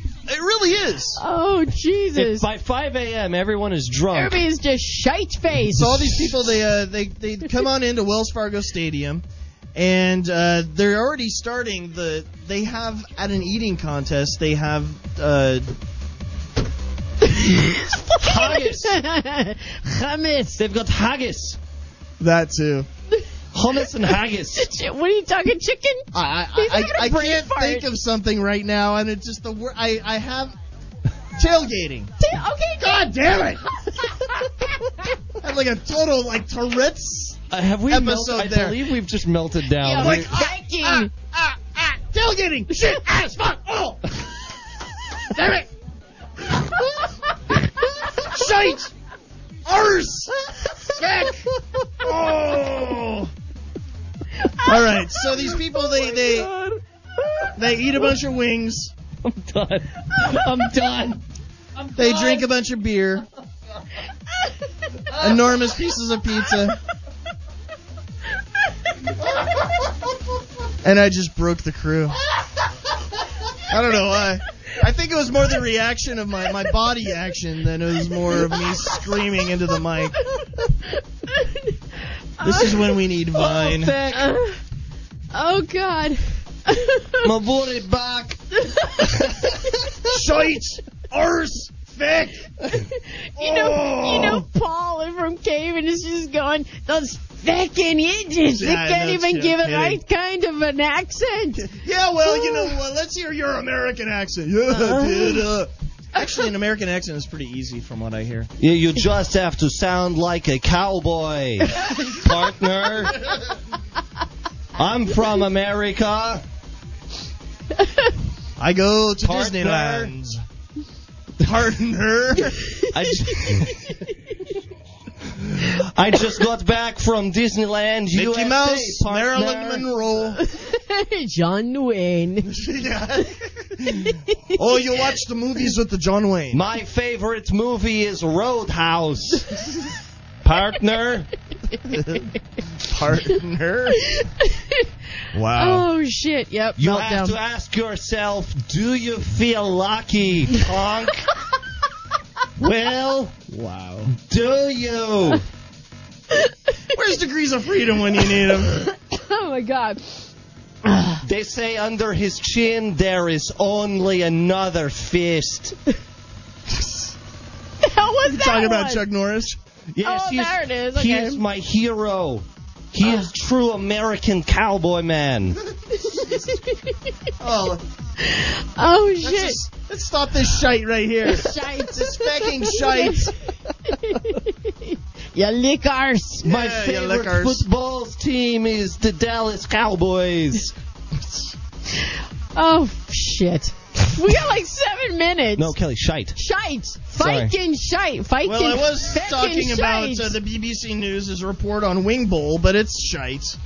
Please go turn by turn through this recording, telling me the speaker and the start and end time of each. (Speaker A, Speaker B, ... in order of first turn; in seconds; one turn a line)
Speaker A: 0.3-1.2
Speaker B: 1.2-2.5
Speaker C: 2.1-4.4
Speaker B: 4.1-6.3
Speaker A: 5.7-9.2
Speaker A: 9.7-15.7
Speaker B: 17.4-20.6
Speaker C: 18.2-19.0
Speaker C: 20.6-21.6
Speaker A: 22.2-22.9
Speaker C: 23.5-24.7
Speaker B: 24.5-27.8
Speaker A: 26.1-30.5
Speaker A: 31.4-32.1
Speaker B: 32.2-33.1
Speaker A: 32.8-34.1
Speaker A: 35.4-38.8
Speaker C: 37.5-40.3
Speaker B: 39.8-41.1
Speaker A: 39.9-44.3
Speaker A: 45.2-45.7
Speaker A: 48.0-48.9
Speaker A: 49.6-53.3
Speaker B: 51.0-51.4
Speaker C: 52.1-52.9
Speaker A: 54.6-56.5
Speaker C: 55.8-57.5
Speaker A: 57.5-58.9
Speaker C: 59.2-61.2
Speaker A: 61.9-63.2
Speaker C: 62.0-62.4
Speaker A: 65.2-66.8
Speaker A: 70.8-72.2
Speaker A: 73.7-80.4
Speaker B: 81.3-81.7
Speaker B: 82.4-82.8
Speaker A: 82.4-83.9
Speaker C: 83.3-84.3
Speaker B: 84.1-84.6
Speaker B: 85.3-87.3
Speaker C: 87.2-88.4
Speaker B: 88.6-89.5
Speaker C: 89.0-89.6
Speaker A: 90.1-92.5
Speaker A: 93.4-94.4
Speaker B: 93.4-101.6
Speaker A: 98.5-100.0
Speaker A: 101.5-108.5
Speaker B: 102.3-102.7
Speaker C: 104.8-105.3
Speaker C: 108.6-113.3
Speaker C: 114.8-116.4
Speaker A: 118.6-120.4
Speaker C: 119.2-120.1
Speaker A: 121.4-122.8
Speaker C: 122.9-123.7
Speaker B: 123.2-124.0
Speaker C: 125.5-129.9
Speaker A: 128.1-130.4
Speaker B: 130.4-132.5
Speaker A: 132.4-136.6
Speaker C: 136.5-139.6
Speaker C: 140.4-141.3
Speaker A: 141.9-144.2
Speaker B: 144.1-144.9
Speaker A: 145.3-145.8
Speaker B: 145.5-147.3
Speaker C: 146.8-151.3
Speaker C: 152.6-153.3
Speaker A: 153.5-154.1
Speaker C: 154.2-155.4
Speaker A: 156.9-158.8
Speaker B: 158.7-160.3
Speaker B: 160.8-161.2
Speaker C: 161.2-165.8
Speaker A: 166.7-167.1
Speaker B: 167.8-169.0
Speaker A: 168.2-169.6
Speaker C: 169.9-175.6
Speaker B: 170.0-171.4
Speaker B: 176.1-176.9
Speaker A: 177.4-177.8
Speaker B: 178.2-179.6
Speaker A: 179.2-183.3
Speaker B: 181.2-183.3
Speaker B: 183.8-186.5
Speaker C: 186.4-190.7
Speaker A: 186.4-187.6
Speaker B: 191.9-195.7
Speaker C: 195.6-196.3
Speaker B: 196.3-200.3
Speaker C: 197.2-197.5
Speaker A: 198.4-203.6